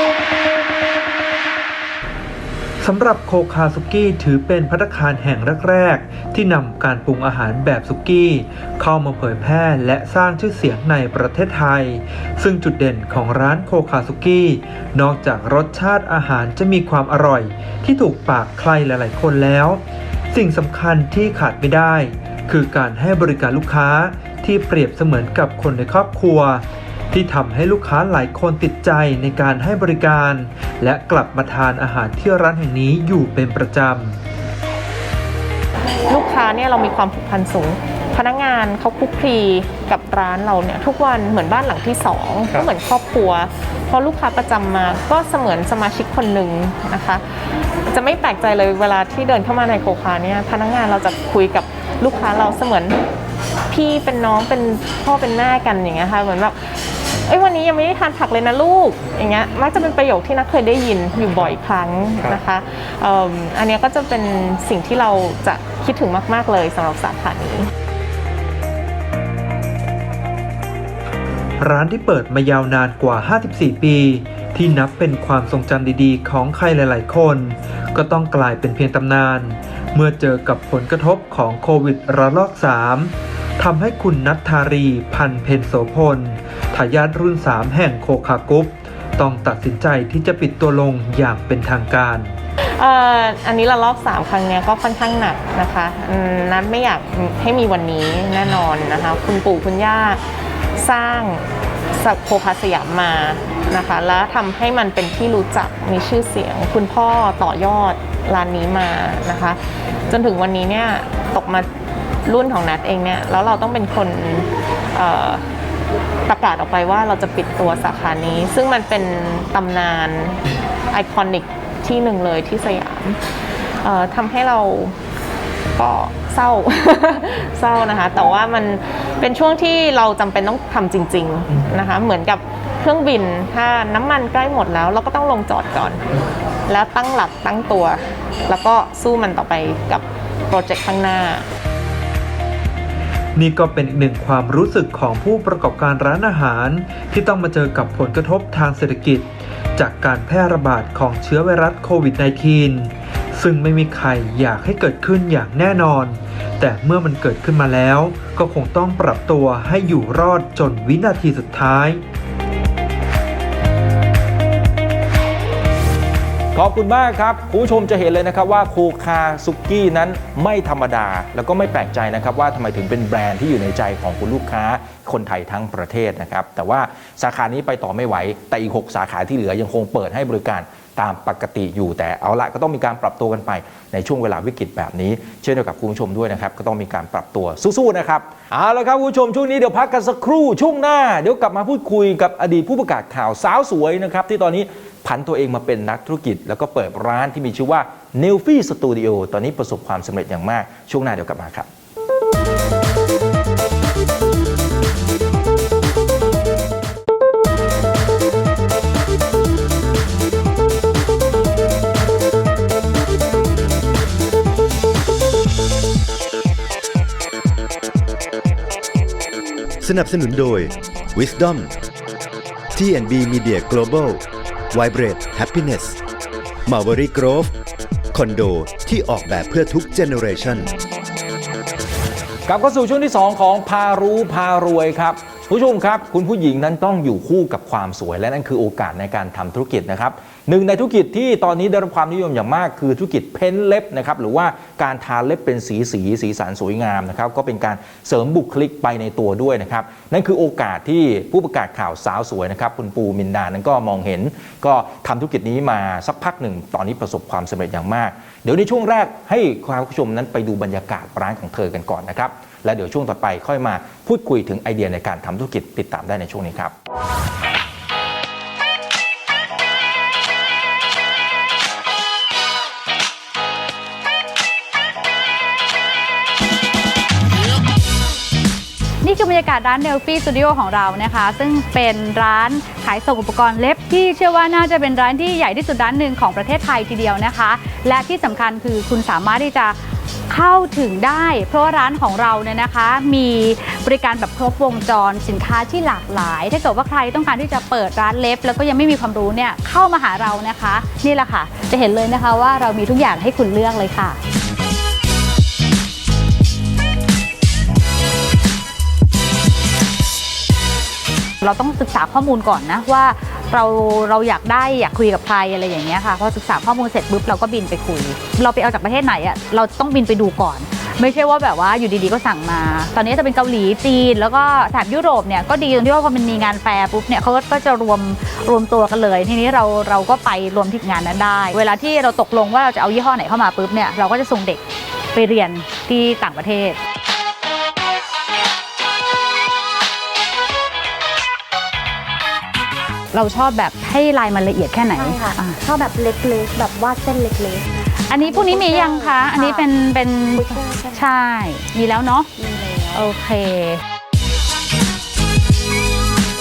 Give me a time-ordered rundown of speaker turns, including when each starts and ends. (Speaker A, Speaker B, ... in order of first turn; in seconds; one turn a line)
Speaker A: 2.8-34.2
Speaker B: 36.1-47.2
Speaker B: 47.9-53.0
Speaker B: 53.7-56.8
Speaker B: 57.3-67.7
Speaker A: 71.6-92.4
Speaker B: 92.8-100.2
Speaker B: 100.8-101.4
Speaker B: 102.0-111.7
Speaker B: 112.3-115.4
Speaker B: 116.3-123.2
Speaker B: 123.8-125.0
Speaker B: 125.8-136.1
Speaker B: 136.7-141.5
Speaker A: 143.4-162.0
Speaker C: 166.5-201.7
Speaker D: 219.8-221.7
Speaker D: 222.7-226.0
Speaker D: 226.7-227.5
Speaker D: 228.1-230.7
Speaker C: 232.5-266.8
Speaker E: 279.0-289.8
Speaker E: 290.3-304.2
Speaker E: 311.4-334.6
Speaker E: 335.1-336.8
Speaker E: 343.1-345.6
Speaker F: 344.9-349.7
Speaker E: 348.1-352.3
Speaker F: 350.3-351.1
Speaker F: 352.4-353.1
Speaker E: 352.9-353.8